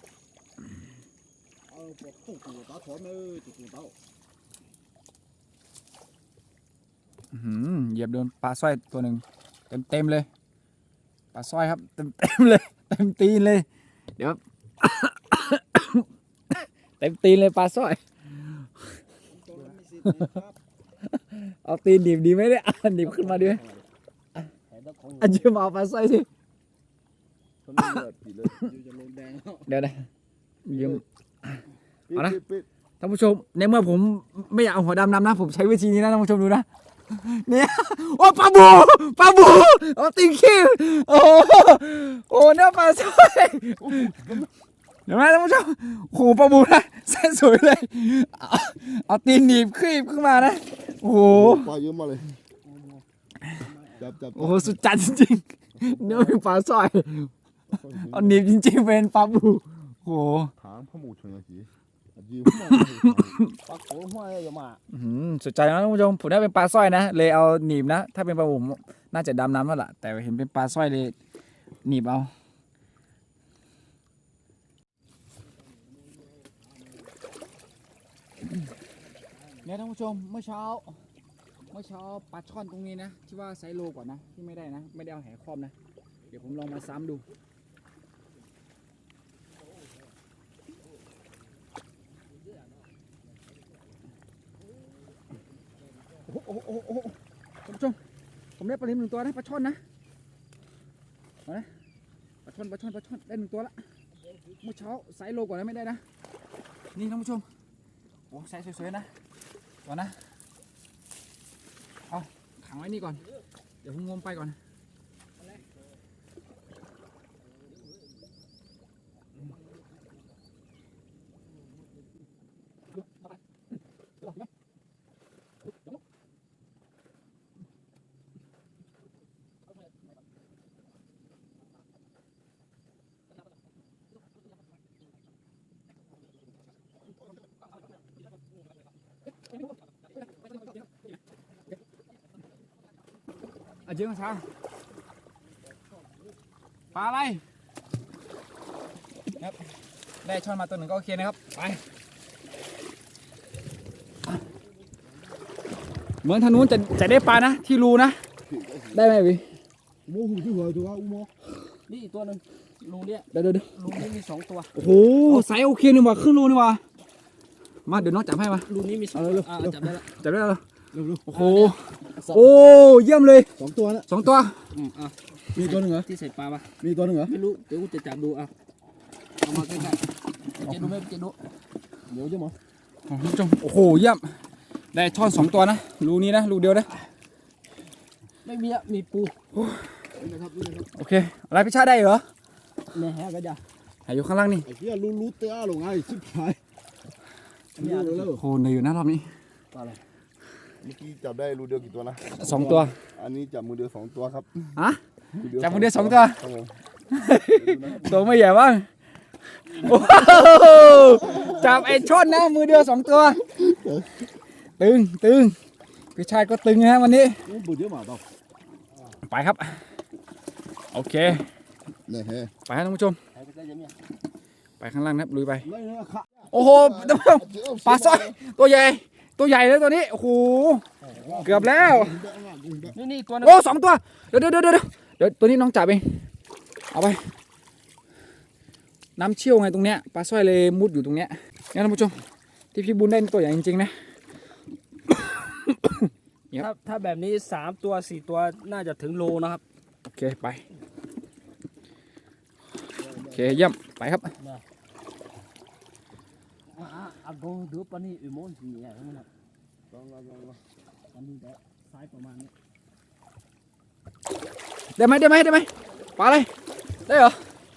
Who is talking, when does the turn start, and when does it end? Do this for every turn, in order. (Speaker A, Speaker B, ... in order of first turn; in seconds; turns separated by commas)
Speaker A: 1.7-3.9, Speaker B: 7.3-10.3, Speaker B: 11.3-13.7, Speaker B: 14.2-19.0, Speaker A: 19.3-20.6, Speaker B: 20.1-20.3, Speaker B: 21.0-23.6, Speaker C: 23.0-23.9, Speaker C: 24.7-25.5, Speaker B: 25.2-26.3, Speaker D: 27.6-28.7, Speaker A: 28.6-29.7, Speaker B: 29.7-30.1, Speaker B: 30.7-31.6, Speaker D: 32.1-32.7, Speaker B: 33.0-44.4, Speaker D: 43.8-44.5, Speaker B: 45.1-51.7, Speaker D: 51.3-52.3, Speaker C: 52.6-53.0, Speaker C: 53.6-54.0, Speaker D: 54.0-54.8, Speaker B: 54.4-57.3, Speaker D: 55.9-56.2, Speaker D: 57.7-58.5, Speaker B: 58.1-60.5, Speaker D: 60.6-63.4, Speaker B: 62.5-63.5, Speaker C: 63.6-64.8, Speaker B: 64.9-71.2, Speaker B: 71.8-72.3, Speaker B: 79.6-80.9, Speaker B: 81.7-85.7, Speaker B: 86.3-87.2, Speaker C: 92.3-92.9, Speaker B: 97.6-98.0, Speaker B: 98.6-99.8, Speaker B: 102.5-103.7, Speaker C: 104.2-104.7, Speaker B: 104.6-106.0, Speaker B: 107.0-107.5, Speaker B: 108.3-109.1, Speaker B: 109.8-110.2, Speaker B: 112.1-113.2, Speaker B: 113.8-114.6, Speaker C: 115.4-115.6, Speaker B: 143.8-144.5, Speaker B: 146.9-147.4, Speaker B: 150.2-151.8, Speaker B: 156.2-158.2, Speaker D: 158.4-159.2, Speaker B: 158.9-159.4, Speaker A: 160.1-161.3, Speaker C: 161.9-164.7, Speaker B: 163.3-163.7, Speaker B: 164.8-166.8, Speaker B: 167.9-168.7, Speaker C: 168.7-170.1, Speaker A: 169.1-170.0, Speaker B: 170.2-170.6, Speaker A: 170.9-171.3, Speaker B: 171.3-173.5, Speaker C: 171.3-171.8, Speaker A: 172.2-172.5, Speaker A: 173.6-174.1, Speaker B: 174.1-174.6, Speaker C: 174.7-176.7, Speaker A: 175.6-176.1, Speaker A: 176.8-177.3, Speaker C: 177.2-178.5, Speaker C: 179.4-180.0, Speaker C: 180.6-181.4, Speaker A: 182.1-182.6, Speaker B: 183.1-184.3, Speaker B: 184.9-186.9, Speaker C: 188.4-189.3, Speaker B: 189.5-189.9, Speaker D: 190.2-190.9, Speaker B: 191.0-192.2, Speaker C: 192.9-193.6, Speaker B: 194.1-194.7, Speaker A: 194.7-196.6, Speaker C: 197.8-198.4, Speaker A: 197.8-198.4, Speaker B: 198.4-199.3, Speaker C: 199.7-200.0, Speaker D: 200.8-202.4, Speaker B: 202.4-202.9, Speaker A: 202.4-202.9, Speaker D: 203.1-204.7, Speaker B: 204.8-206.4, Speaker D: 205.3-206.8, Speaker B: 207.1-208.9, Speaker D: 207.5-208.3, Speaker B: 209.8-213.4, Speaker D: 210.8-212.2, Speaker D: 213.4-214.2, Speaker B: 214.8-215.6, Speaker B: 216.2-217.4, Speaker A: 217.5-218.2, Speaker B: 219.3-219.8, Speaker B: 220.9-221.5, Speaker D: 222.1-222.5, Speaker B: 222.7-223.2, Speaker C: 223.3-223.9, Speaker B: 224.8-225.7, Speaker A: 225.6-226.3, Speaker D: 226.4-228.4, Speaker B: 226.5-230.8, Speaker A: 231.0-231.8, Speaker D: 231.3-233.0, Speaker B: 231.4-232.2, Speaker C: 232.9-233.6, Speaker B: 233.4-236.3, Speaker B: 236.9-237.3, Speaker B: 239.2-242.2, Speaker B: 242.7-243.9, Speaker B: 245.1-246.7, Speaker C: 246.5-249.6, Speaker B: 250.1-250.6, Speaker D: 253.0-253.7, Speaker B: 253.3-254.3, Speaker C: 254.4-254.6, Speaker C: 256.7-259.3, Speaker D: 259.9-260.6, Speaker C: 261.1-262.5, Speaker B: 265.0-266.5, Speaker B: 267.1-267.4